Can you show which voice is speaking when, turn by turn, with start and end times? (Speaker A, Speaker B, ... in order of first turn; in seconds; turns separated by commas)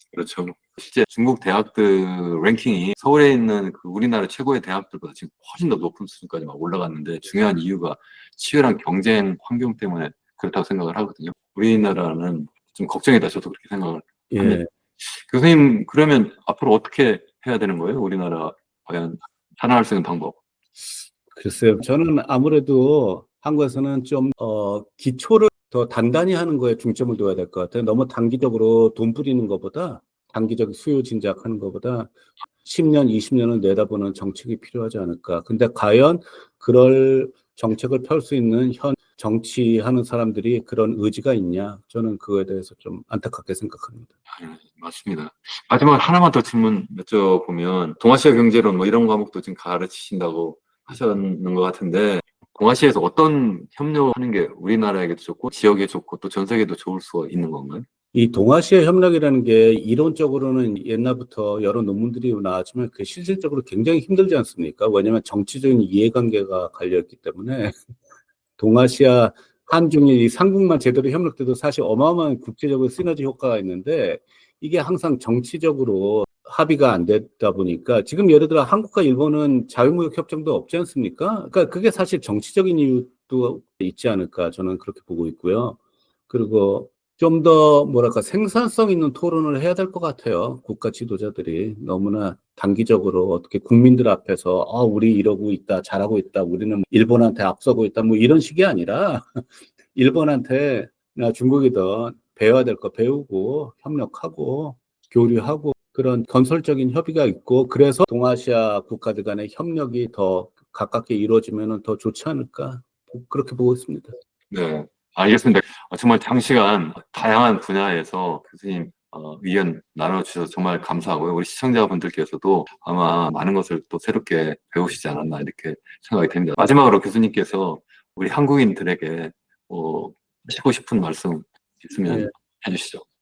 Speaker A: 0.1-20.4, Speaker B: 14.3-14.7, Speaker B: 21.3-44.1, Speaker A: 44.3-57.9, Speaker B: 58.1-67.8, Speaker B: 68.6-85.8, Speaker B: 86.3-114.2, Speaker A: 114.5-133.0, Speaker B: 132.0-132.3